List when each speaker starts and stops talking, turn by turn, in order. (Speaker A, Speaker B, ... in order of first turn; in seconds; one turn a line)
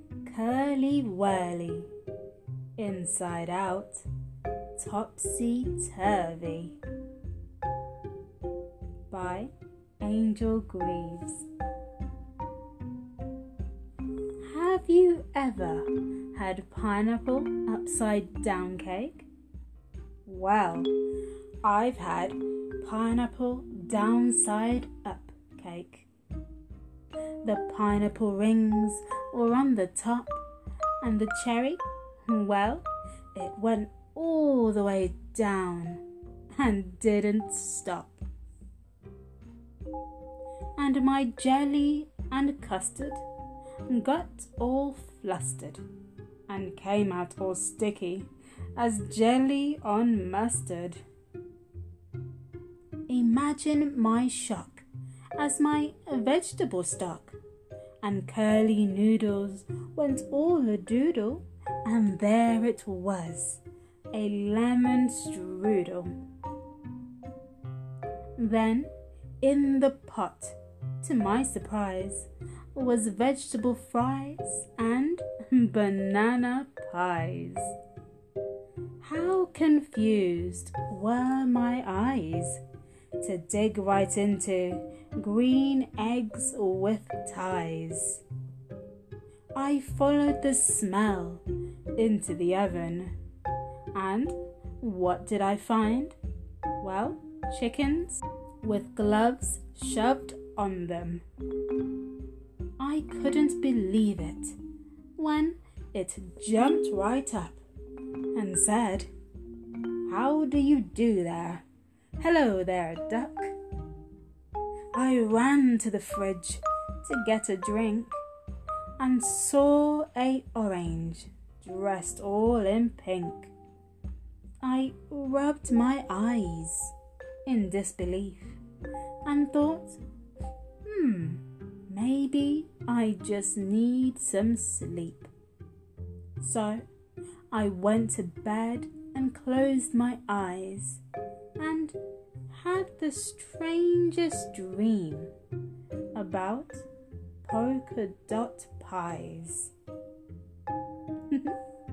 Speaker A: 0.2-1.9
Speaker A: 2.8-4.1
Speaker A: 4.8-6.8
Speaker A: 9.1-11.5
Speaker A: 14.4-19.3
Speaker A: 20.2-20.9
Speaker A: 21.6-26.1
Speaker A: 27.4-30.4
Speaker A: 31.0-38.2
Speaker A: 40.8-43.2
Speaker A: 43.9-45.8
Speaker A: 46.5-51.0
Speaker A: 53.1-54.9
Speaker A: 55.4-57.4
Speaker A: 58.0-66.2
Speaker A: 68.4-77.8
Speaker A: 79.0-82.6
Speaker A: 83.2-88.2
Speaker A: 89.5-91.4
Speaker A: 92.0-93.2
Speaker A: 93.9-96.2
Speaker A: 96.8-101.2
Speaker A: 102.8-104.6
Speaker A: 105.2-107.6
Speaker A: 108.3-109.1
Speaker A: 110.1-111.7
Speaker A: 112.2-113.6
Speaker A: 114.9-118.2
Speaker A: 119.0-123.5
Speaker A: 124.6-127.0
Speaker A: 127.5-128.6
Speaker A: 129.2-130.0
Speaker A: 130.8-135.3
Speaker A: 136.4-136.8
Speaker A: 137.5-141.0
Speaker A: 141.6-142.0
Speaker A: 142.5-145.3
Speaker A: 146.1-146.9
Speaker A: 147.4-149.7
Speaker A: 151.3-151.6